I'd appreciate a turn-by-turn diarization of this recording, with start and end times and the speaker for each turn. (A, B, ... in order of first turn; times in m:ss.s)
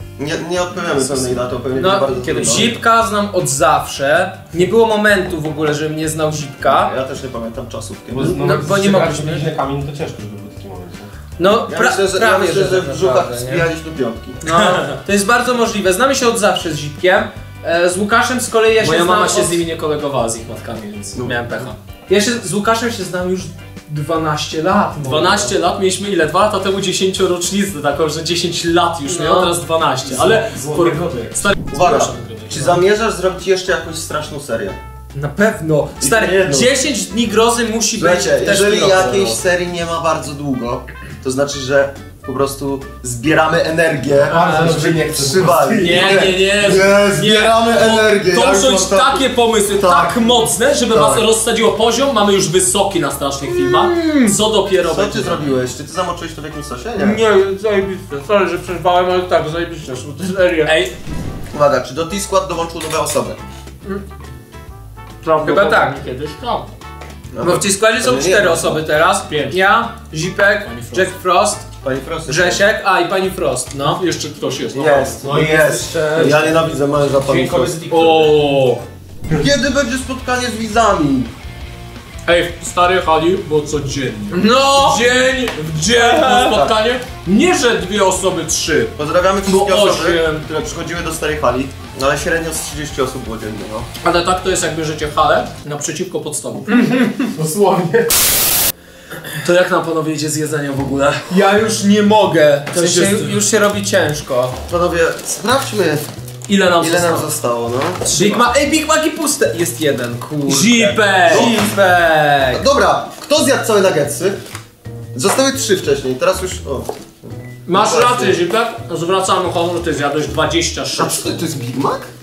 0:00.2-0:02.7 A
0:01.7-0:06.9 B
0:02.2-0:02.8 C
0:06.6-0:08.4 A
0:08.1-0:11.1 D
0:08.2-0:09.5 B
0:11.4-0:13.6 B
0:11.7-0:14.4 A
0:14.4-0:19.6 B
0:14.5-0:14.9 C
0:18.8-0:21.2 C
0:21.1-0:21.7 A
0:21.2-0:25.5 B
0:25.0-0:32.7 C
0:29.0-0:29.5 B
0:30.1-0:31.5 D
0:31.7-0:34.8 A
0:35.1-0:39.4 B
0:36.0-0:36.7 A
0:38.0-0:50.2 A
0:44.3-0:46.3 D
0:44.3-0:44.9 B
0:45.8-0:55.6 C
0:50.9-0:51.2 A
0:53.6-0:54.3 B
0:54.8-0:57.2 A
0:57.0-1:00.7 B
1:00.6-1:00.9 C
1:01.5-1:03.4 A
1:05.2-1:06.7 C
1:05.4-1:06.0 B
1:07.3-1:08.8 A
1:07.4-1:11.6 B
1:09.3-1:09.6 C
1:10.6-1:11.1 C
1:11.8-1:12.6 A
1:12.2-1:14.0 B
1:13.8-1:15.3 C
1:14.7-1:17.8 A
1:15.2-1:18.3 D
1:17.8-1:18.8 C
1:19.3-1:21.3 A
1:22.2-1:30.4 C
1:24.3-1:25.0 B
1:26.0-1:26.3 B
1:26.1-1:26.7 A
1:29.0-1:33.9 A
1:34.0-1:36.7 C
1:36.7-1:37.3 B
1:37.2-1:38.3 D
1:39.3-1:41.3 C
1:41.3-1:44.5 B
1:42.7-1:43.4 C
1:44.7-1:46.0 A
1:46.5-1:47.3 C
1:46.8-1:48.0 A
1:48.0-1:48.4 C
1:48.1-1:52.6 B
1:50.4-1:51.5 C
1:51.3-1:51.7 A
1:52.5-1:54.4 A
1:55.1-1:58.4 A
1:57.6-2:01.4 C
2:01.0-2:02.1 A